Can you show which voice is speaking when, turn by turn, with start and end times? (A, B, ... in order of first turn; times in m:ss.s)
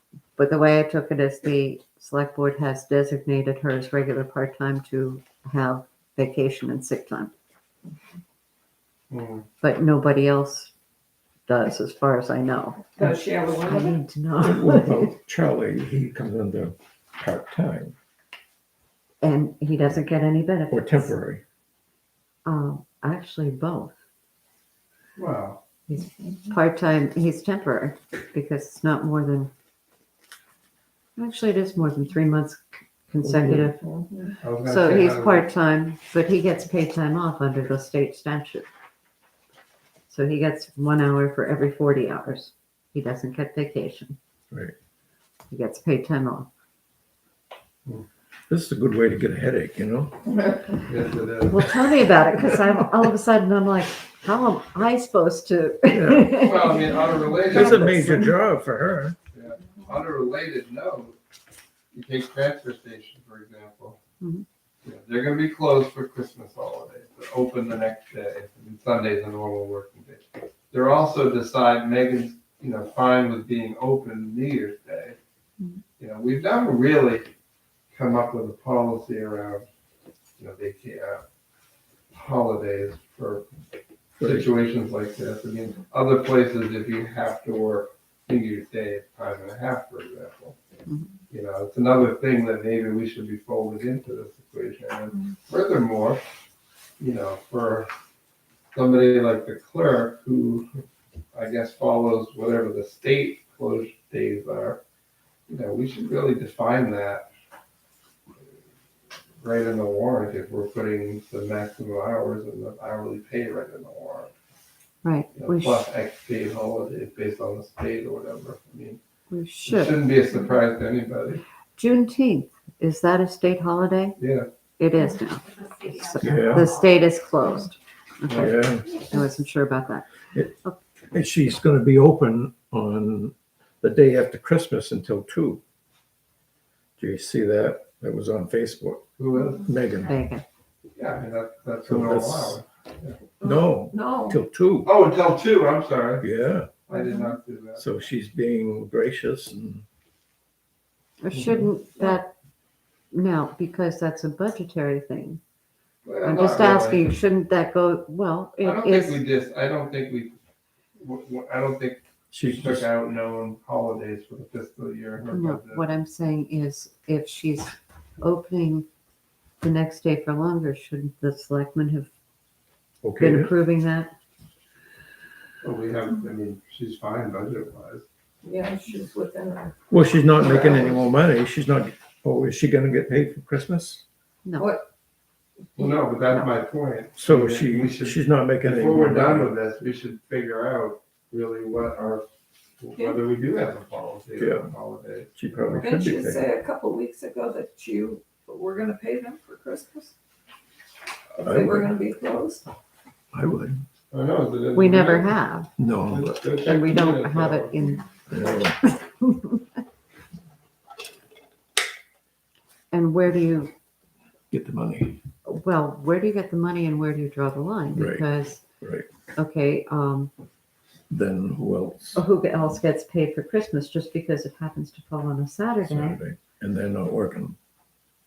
0:00.4-0:07.3 A
0:09.1-0:09.4 B
0:09.6-0:10.7 A
0:11.5-0:15.1 A
0:13.0-0:14.0 C
0:14.4-0:18.0 D
0:19.2-0:21.1 A
0:20.7-0:21.4 D
0:22.4-0:24.0 A
0:25.2-0:25.6 B
0:25.9-0:29.5 A
0:31.2-0:33.8 A
0:33.2-0:34.1 D
0:34.1-0:34.4 C
0:34.4-0:35.5 B
0:34.6-0:38.7 A
0:40.1-0:44.2 A
0:45.5-0:46.5 A
0:48.5-0:50.2 D
0:50.8-0:51.7 B
0:51.5-0:58.3 A
0:55.9-0:56.3 D
0:56.4-0:58.0 B
0:57.5-0:59.2 D
0:59.3-1:01.2 B
1:01.9-1:04.0 B
1:04.8-1:15.2 B
1:16.0-1:17.3 B
1:17.9-1:19.6 B
1:20.4-1:21.2 B
1:22.1-1:23.5 B
1:24.2-1:30.6 B
1:24.2-1:24.5 D
1:31.3-1:36.2 B
1:37.0-1:37.9 B
1:38.7-1:40.7 B
1:41.3-1:44.8 B
1:45.5-1:47.3 B
1:49.4-1:54.3 B
1:55.0-1:55.8 A
1:55.4-1:59.0 B
1:59.3-2:00.0 A
1:59.6-2:01.4 B
2:01.8-2:04.2 A
2:04.2-2:04.5 B
2:04.8-2:10.8 A
2:06.2-2:06.8 D
2:08.3-2:08.6 B
2:08.4-2:08.9 D
2:11.1-2:15.6 D
2:17.0-2:19.0 D
2:19.2-2:19.7 B
2:19.6-2:20.1 D
2:20.1-2:20.4 A
2:21.0-2:23.2 B
2:21.8-2:22.6 D
2:23.4-2:24.9 D
2:23.4-2:24.4 C
2:24.8-2:26.3 B
2:26.2-2:26.7 D
2:26.9-2:27.8 B
2:26.9-2:27.4 C
2:27.8-2:29.8 D
2:31.2-2:32.3 A
2:31.3-2:31.7 B
2:33.1-2:35.4 A
2:36.0-2:37.0 B
2:36.2-2:39.2 A
2:38.6-2:40.4 B
2:41.0-2:45.8 B
2:42.3-2:42.9 D
2:45.3-2:48.9 A
2:49.6-2:52.1 A
2:53.0-2:53.5 D
2:53.2-2:54.1 A
2:55.6-2:58.0 B
2:58.4-2:59.8 C
2:59.9-3:04.0 D
3:00.4-3:00.9 C
3:04.4-3:04.7 A
3:04.6-3:04.8 C
3:05.8-3:12.2 B
3:07.2-3:09.5 D
3:12.8-3:15.3 B
3:13.0-3:13.2 C
3:14.4-3:14.7 D
3:15.4-3:16.5 D
3:15.7-3:20.1 C
3:21.4-3:21.9 D
3:21.4-3:22.6 C
3:23.3-3:23.8 D
3:24.1-3:25.3 B
3:24.7-3:25.7 A
3:25.8-3:26.5 D
3:26.1-3:27.7 B
3:26.6-3:28.0 A
3:28.3-3:28.8 D
3:28.8-3:29.6 A
3:32.9-3:33.7 A
3:34.5-3:35.2 D
3:35.5-3:38.6 A
3:37.9-3:39.1 D
3:39.4-3:40.3 A
3:41.1-3:42.2 D
3:42.2-3:46.2 A
3:45.8-3:47.6 D